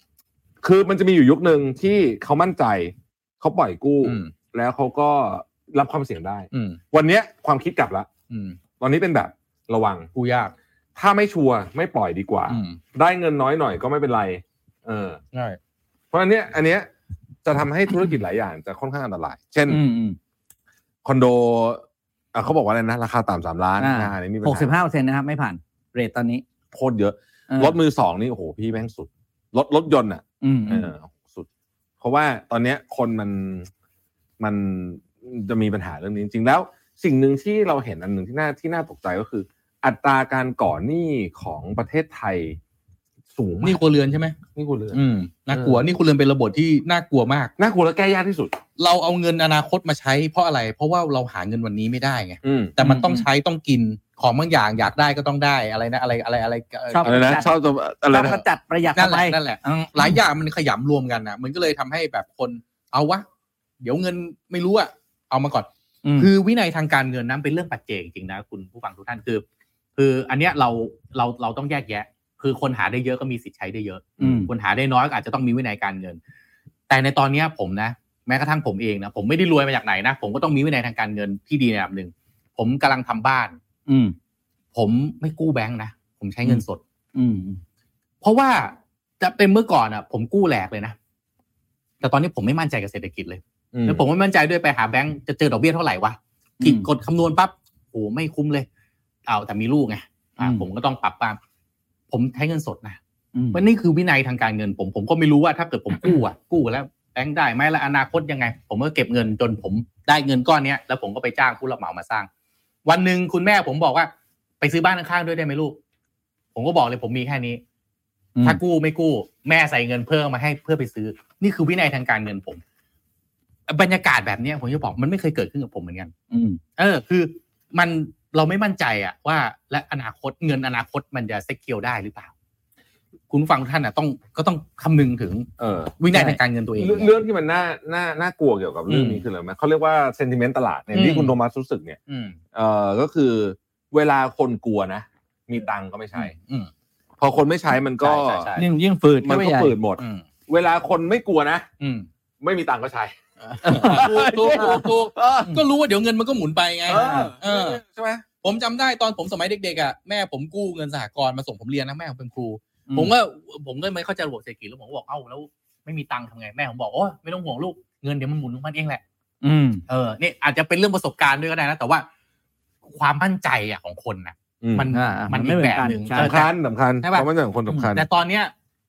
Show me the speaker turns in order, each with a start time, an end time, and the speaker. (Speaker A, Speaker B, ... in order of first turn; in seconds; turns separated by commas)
Speaker A: 0.6-8.1, Speaker B: 4.0-4.3, Speaker B: 6.5-6.8, Speaker B: 8.3-8.6, Speaker A: 8.8-10.1, Speaker B: 10.2-10.5, Speaker A: 11.0-15.2, Speaker B: 12.5-12.8, Speaker B: 15.3-15.6, Speaker A: 16.1-16.9, Speaker A: 17.4-19.8, Speaker C: 19.7-20.2, Speaker A: 21.0-21.8, Speaker A: 22.3-24.7, Speaker C: 23.8-26.4, Speaker A: 26.7-31.5, Speaker C: 27.5-27.8, Speaker C: 30.4-30.9, Speaker A: 32.0-33.7, Speaker A: 34.4-42.6, Speaker A: 43.3-43.8, Speaker B: 43.6-44.4, Speaker A: 44.5-45.8, Speaker B: 44.9-47.5, Speaker A: 47.6-48.6, Speaker B: 48.8-57.4, Speaker A: 52.4-52.8, Speaker C: 52.8-53.3, Speaker C: 56.9-57.5, Speaker A: 57.0-58.4, Speaker C: 58.1-60.2, Speaker B: 59.0-63.2, Speaker B: 63.8-65.7, Speaker C: 66.0-66.3, Speaker B: 66.2-69.4, Speaker B: 70.0-76.2, Speaker A: 74.2-74.5, Speaker C: 74.2-74.5, Speaker B: 76.9-83.6, Speaker C: 83.9-84.2, Speaker B: 84.8-86.8, Speaker C: 87.2-87.6, Speaker B: 88.2-91.0, Speaker B: 92.0-98.7, Speaker A: 93.7-94.0, Speaker C: 96.6-96.9, Speaker B: 99.3-101.4, Speaker C: 100.4-100.6, Speaker B: 102.1-103.0, Speaker C: 103.3-103.6, Speaker B: 103.5-112.3, Speaker B: 112.9-115.8, Speaker B: 116.5-117.6, Speaker B: 118.4-122.6, Speaker B: 123.7-126.1, Speaker C: 126.3-126.6, Speaker B: 126.8-132.3, Speaker B: 133.3-137.2, Speaker A: 135.6-136.0, Speaker C: 136.1-136.4, Speaker A: 136.8-142.0, Speaker B: 138.9-139.2, Speaker B: 140.9-141.3, Speaker B: 142.1-142.4, Speaker A: 142.5-146.3, Speaker B: 146.2-146.7, Speaker A: 147.2-148.6, Speaker B: 148.0-148.6, Speaker C: 148.6-149.8, Speaker A: 149.2-151.7, Speaker B: 150.0-150.2, Speaker B: 151.8-152.1, Speaker A: 152.4-153.2, Speaker B: 153.4-157.8, Speaker C: 153.6-154.1, Speaker A: 153.7-155.5, Speaker A: 156.9-158.2, Speaker C: 156.9-157.3, Speaker B: 158.4-169.0, Speaker C: 169.4-169.8, Speaker B: 169.9-172.1, Speaker B: 172.9-178.5, Speaker A: 174.6-174.9, Speaker C: 174.9-176.3, Speaker A: 176.2-178.1